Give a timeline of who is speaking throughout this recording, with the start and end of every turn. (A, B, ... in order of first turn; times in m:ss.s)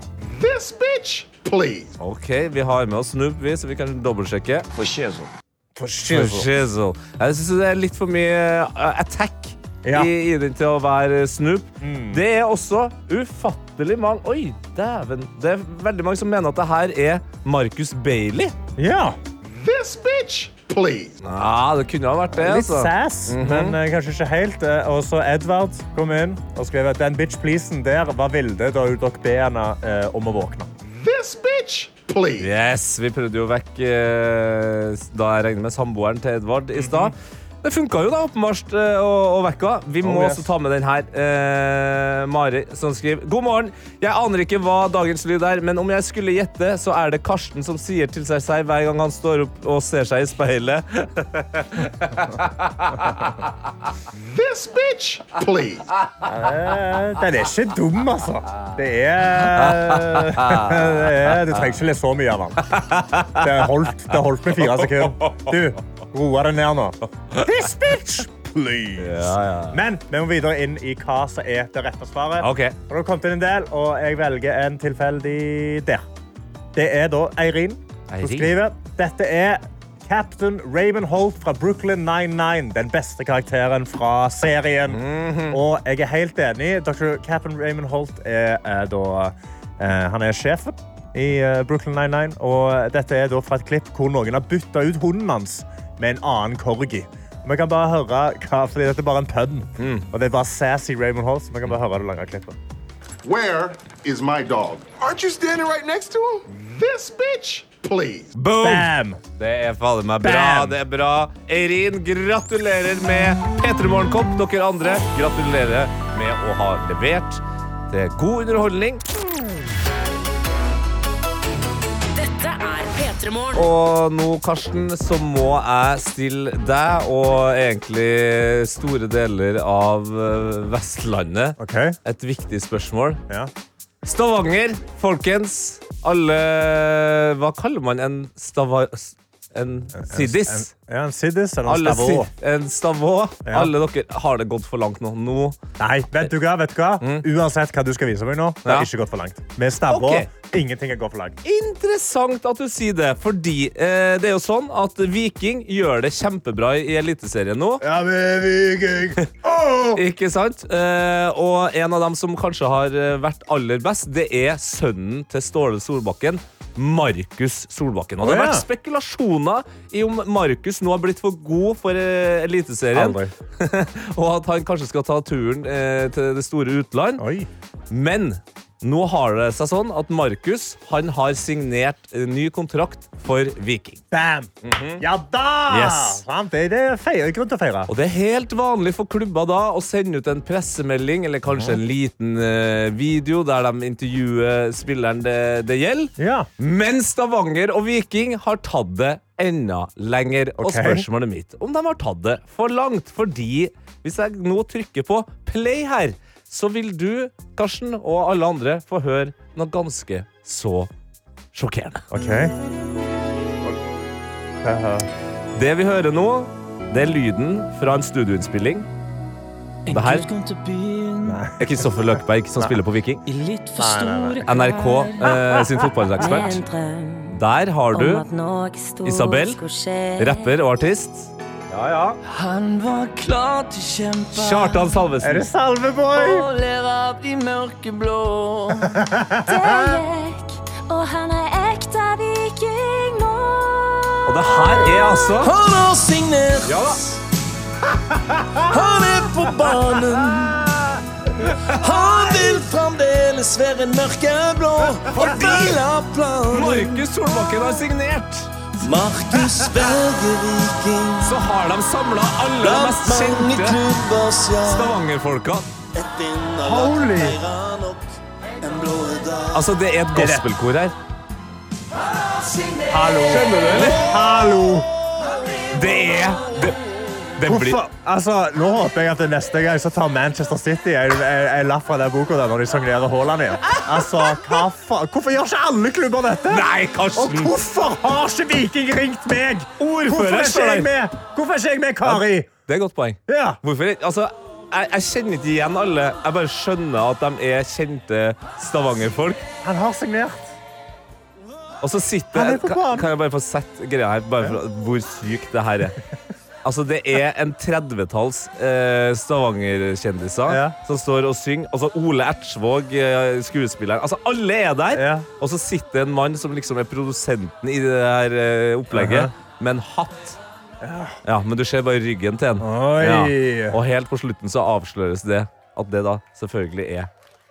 0:00.4-0:01.9 A
0:02.0-0:04.7 B
0:04.8-0:05.2 C
0:05.7-0:06.5 D
0:06.1-0:18.5 B
0:09.8-0:10.1 D
0:11.8-0:12.2 D
0:18.8-0:19.2 D
0:19.5-0:21.2 A
0:21.2-0:23.8 B
0:22.3-0:30.7 D
0:31.0-0:32.5 A
0:32.4-0:53.3 B
0:36.7-0:37.1 D
0:40.0-0:40.5 D
0:54.2-0:55.9 A
0:56.3-1:16.0 D
0:59.5-1:01.0 B
1:02.7-1:03.4 B
1:04.6-1:05.5 B
1:09.0-1:09.8 B
1:12.4-1:12.8 B
1:16.7-1:42.6 D
1:18.1-1:18.5 B
1:24.9-1:25.6 B
1:39.8-1:40.1 B
1:43.2-1:48.3 A
1:48.3-1:59.0 B
1:48.6-1:49.2 D
1:50.2-1:50.8 D
2:02.1-2:03.7 E
2:03.5-2:13.2 B
2:11.6-2:12.0 D
2:14.0-2:20.7 B
2:19.9-2:22.3 D
2:21.6-2:25.6 B
2:23.4-2:23.7 D
2:25.8-2:31.4 D
2:29.9-2:30.3 B
2:31.4-2:37.8 B
2:37.8-2:40.0 D
2:39.9-2:57.2 B
2:48.2-2:48.6 D
2:52.9-2:53.3 D
2:57.2-2:57.5 D
2:57.9-3:04.0 B
3:04.1-3:07.9 D
3:04.6-3:05.0 B
3:05.7-3:06.2 B
3:07.9-3:30.9 B
3:11.5-3:11.8 D
3:16.2-3:16.5 D
3:20.6-3:21.0 D
3:31.5-3:32.0 B
3:32.1-3:32.5 D
3:34.6-3:35.1 D
3:35.5-3:38.9 B
3:39.9-3:41.5 C
3:39.9-3:40.3 B
3:41.2-3:42.1 D
3:41.6-3:43.2 B
3:43.2-3:45.6 C
3:43.7-3:44.4 D
3:44.4-3:46.6 B
3:46.2-3:47.3 E
3:47.3-3:48.2 B
3:47.9-3:50.5 E
3:49.0-3:49.6 B
3:50.2-3:52.2 B
3:52.2-3:55.1 C
3:54.3-3:55.4 B
3:55.2-3:56.4 D
3:56.1-3:59.0 C
3:59.0-4:00.0 D
3:59.4-4:05.2 E
4:04.2-4:05.5 B
4:05.4-4:07.2 C
4:06.6-4:07.0 B
4:08.6-4:10.7 C
4:11.6-4:17.0 C
4:15.2-4:15.8 B
4:16.5-4:18.5 B
4:18.8-4:21.4 C
4:21.2-4:23.8 B
4:22.6-4:25.0 C
4:24.6-4:25.7 B
4:26.0-4:28.0 C
4:26.6-4:27.4 D
4:28.6-4:29.6 C
4:29.5-4:30.9 B
4:30.1-4:30.5 D
4:32.9-4:34.9 D
4:33.2-4:34.0 B
4:35.7-4:36.8 B
4:37.4-4:37.8 B
4:37.4-4:52.5 D
4:43.7-4:44.5 B
4:46.5-4:47.5 B
4:49.8-4:50.9 B
4:52.0-4:59.5 B
4:53.3-4:53.6 D
4:59.6-5:00.5 D
5:01.8-5:06.0 B
5:02.3-5:03.1 D
5:06.6-5:20.4 B
5:10.4-5:10.8 D
5:14.9-5:15.2 D
5:18.9-5:19.3 D
5:20.8-5:21.2 D
5:21.2-5:27.1 B
5:22.6-5:23.8 D